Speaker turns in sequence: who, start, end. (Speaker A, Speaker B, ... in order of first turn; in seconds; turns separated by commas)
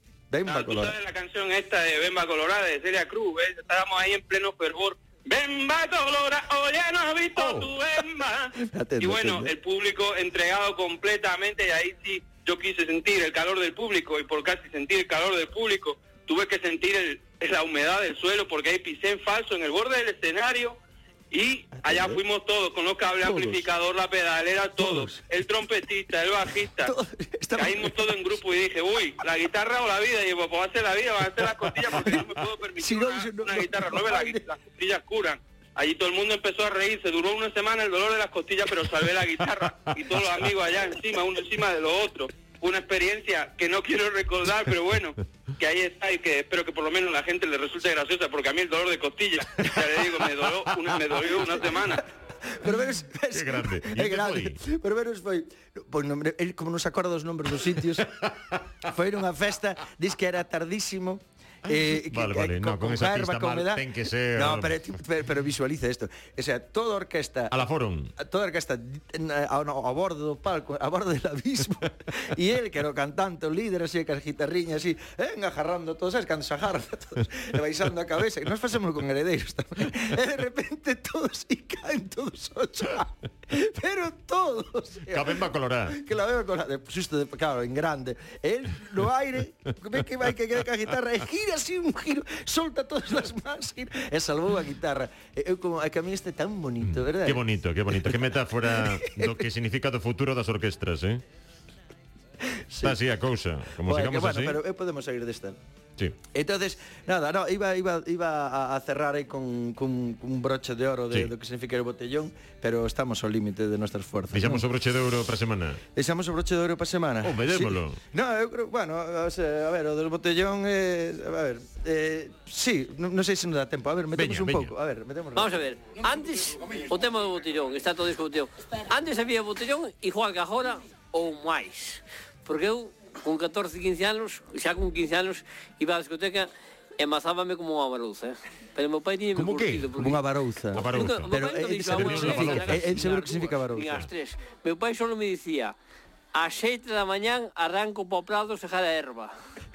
Speaker A: 0.3-1.0, Speaker B: 0.5-20.8, Speaker C: 7.3-7.7, Speaker A: 8.6-9.5, Speaker B: 21.3-26.9, Speaker A: 21.8-22.2, Speaker A: 23.2-23.7, Speaker A: 24.8-25.2, Speaker A: 26.5-28.4, Speaker B: 27.6-52.0, Speaker A: 31.9-32.3, Speaker A: 32.8-34.5, Speaker C: 39.7-40.5, Speaker A: 51.9-58.3, Speaker C: 53.3-54.6, Speaker C: 58.2-58.6, Speaker A: 58.8-67.5, Speaker C: 61.7-64.8, Speaker C: 67.5-68.1, Speaker A: 68.2-99.5, Speaker C: 85.1-86.0, Speaker C: 96.8-101.2, Speaker A: 102.4-103.0, Speaker C: 102.8-104.6, Speaker A: 103.8-105.6, Speaker A: 106.3-114.7, Speaker C: 114.3-115.8, Speaker A: 115.9-125.6, Speaker C: 117.2-118.0, Speaker C: 124.2-124.7, Speaker D: 125.3-140.2, Speaker C: 139.3-139.9, Speaker A: 139.9-144.1, Speaker C: 140.8-144.1, Speaker D: 140.8-145.7, Speaker D: 146.3-149.3